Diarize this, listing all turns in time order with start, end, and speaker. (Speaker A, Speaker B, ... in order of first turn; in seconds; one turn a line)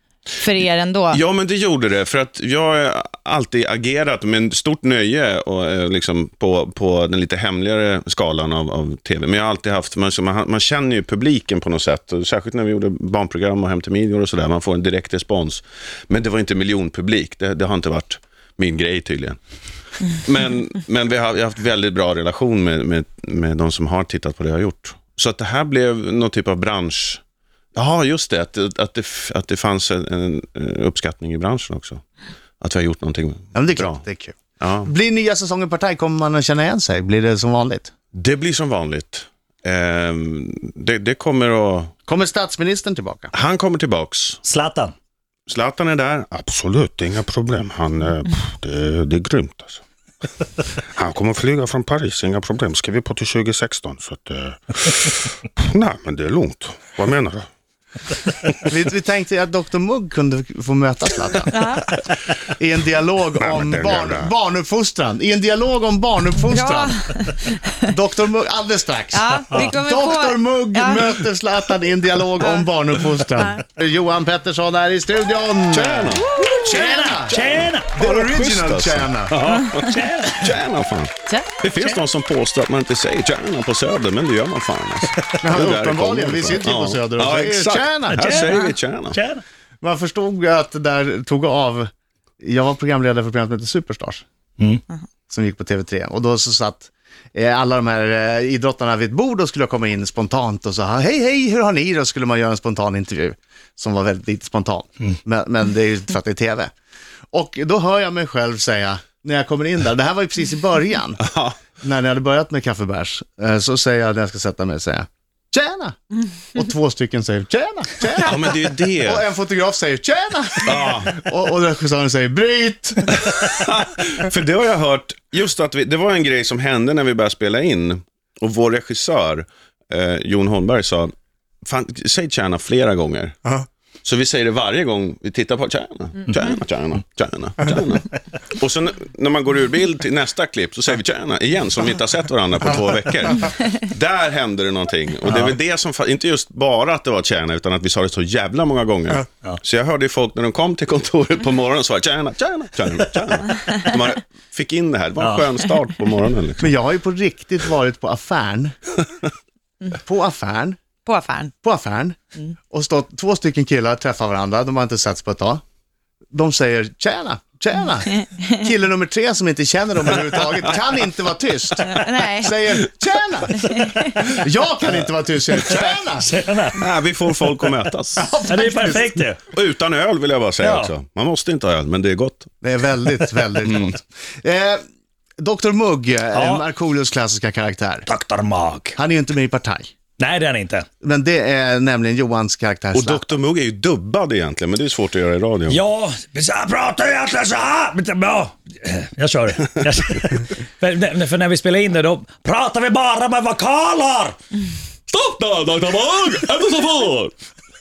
Speaker A: 0.4-1.2
Speaker B: 1.1-19.4
Speaker B: 20.1-27.2
Speaker B: 27.8-32.0
Speaker B: 32.6-34.0
Speaker C: 33.5-37.9
Speaker B: 34.6-34.9
Speaker B: 38.1-41.9
Speaker C: 42.1-43.3
Speaker B: 43.3-44.4
Speaker D: 44.4-44.9
Speaker B: 45.5-49.8
Speaker B: 50.9-57.5
Speaker C: 58.7-61.5
Speaker A: 61.5-61.9
Speaker C: 62.6-66.9
Speaker B: 63.4-64.3
Speaker A: 66.5-67.8
Speaker C: 67.9-79.4
Speaker A: 69.1-71.1
Speaker A: 72.4-72.7
Speaker A: 73.3-73.6
Speaker B: 75.7-76.3
Speaker D: 76.3-78.0
Speaker B: 77.3-89.2
Speaker D: 79.8-80.6
Speaker D: 81.7-82.0
Speaker C: 85.4-88.3
Speaker D: 88.1-89.4
Speaker C: 89.8-91.9
Speaker C: 92.4-94.2
Speaker C: 95.3-106.7
Speaker C: 107.3-111.2
Speaker B: 111.2-111.6
Speaker C: 111.8-123.2
Speaker B: 118.2-119.3
Speaker B: 120.6-121.2
Speaker B: 123.2-131.1
Speaker B: 131.6-133.5
Speaker B: 134.0-156.8
Speaker D: 145.3-145.6
Speaker D: 155.2-155.5
Speaker C: 156.6-158.8
Speaker C: 160.0-160.8
Speaker A: 161.1-161.5
Speaker C: 161.6-162.2
Speaker C: 162.7-165.6
Speaker C: 166.3-176.3
Speaker A: 171.8-172.6
Speaker A: 173.6-174.2
Speaker D: 176.2-176.9
Speaker B: 176.8-178.3
Speaker C: 178.2-179.2
Speaker D: 178.5-179.5
Speaker B: 179.5-182.5
Speaker D: 180.6-180.9
Speaker C: 182.6-184.8
Speaker B: 183.6-183.9
Speaker C: 185.4-188.1
Speaker D: 186.3-186.7
Speaker D: 188.1-189.0
Speaker C: 189.0-189.9
Speaker D: 190.2-190.9
Speaker C: 191.0-193.2
Speaker B: 192.9-195.8
Speaker D: 195.7-204.4
Speaker B: 205.1-207.3